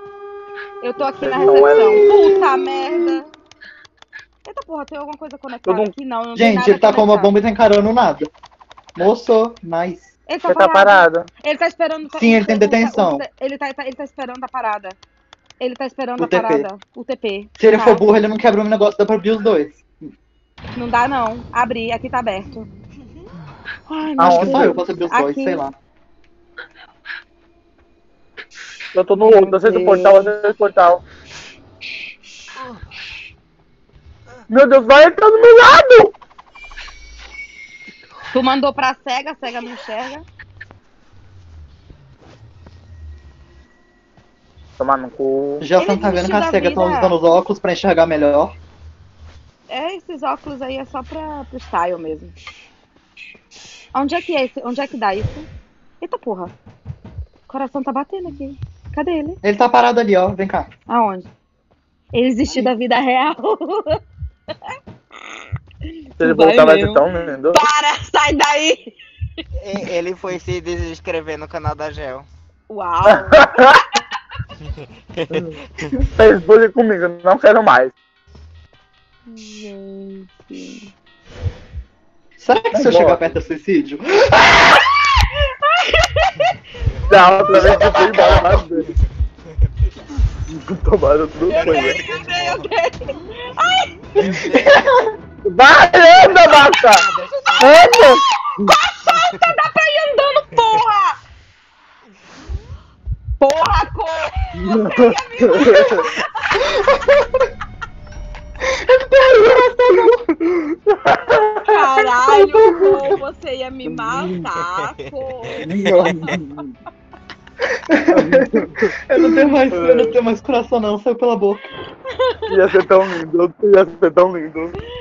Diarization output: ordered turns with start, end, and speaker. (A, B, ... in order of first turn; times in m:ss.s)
0:00.8-0:03.3 A
0:01.0-0:02.1 B
0:01.5-0:02.5 C
0:04.4-0:07.3 A
0:05.6-0:05.9 B
0:06.3-0:08.3 C
0:09.0-0:10.1 C
0:10.3-0:15.0 A
0:10.5-0:11.3 B
0:12.2-0:13.2 C
0:15.6-0:18.0 A
0:16.2-0:16.7 C
0:17.6-0:19.8 C
0:20.7-0:22.7 A
0:23.9-0:25.6 A
0:24.2-0:24.8 B
0:24.2-0:25.7 C
0:28.9-0:31.0 B
0:29.2-0:30.3 A
0:34.5-0:36.1 B
0:38.3-0:40.2 A
0:44.8-0:45.7 B
0:45.6-0:48.5 C
0:45.7-0:47.2 A
0:49.7-0:52.3 A
0:53.9-0:55.5 A
0:56.0-0:56.5 A
0:57.5-0:59.4 A
0:59.4-1:00.7 C
1:00.9-1:01.3 A
1:02.1-1:04.0 A
1:05.2-1:05.5 A
1:06.2-1:08.9 A
1:06.2-1:07.6 B
1:09.5-1:12.3 D
1:12.7-1:13.8 A
1:13.1-1:13.8 B
1:14.7-1:16.0 D
1:16.1-1:17.9 B
1:19.3-1:20.9 A
1:22.4-1:24.8 C
1:22.7-1:23.2 B
1:25.7-1:26.4 A
1:27.0-1:29.7 D
1:27.1-1:28.9 B
1:27.5-1:28.6 C
1:30.5-1:32.0 B
1:31.5-1:34.0 A
1:31.5-1:32.7 D
1:34.2-1:34.8 D
1:34.2-1:35.1 C
1:35.4-1:37.0 B
1:36.4-1:38.0 D
1:37.4-1:41.2 A
1:37.6-1:38.2 B
1:39.1-1:39.5 D
1:43.4-1:47.0 A
1:44.6-1:46.0 B
1:48.6-1:50.7 C
1:51.0-1:51.4 B
1:51.6-1:56.4 A
1:52.3-1:53.1 C
1:53.8-1:54.4 B
1:54.5-1:56.3 D
1:55.6-1:56.4 C
1:56.3-1:56.6 B
1:57.7-2:01.6 C
1:58.1-1:58.9 B
1:59.7-2:00.1 B
2:02.5-2:04.8 B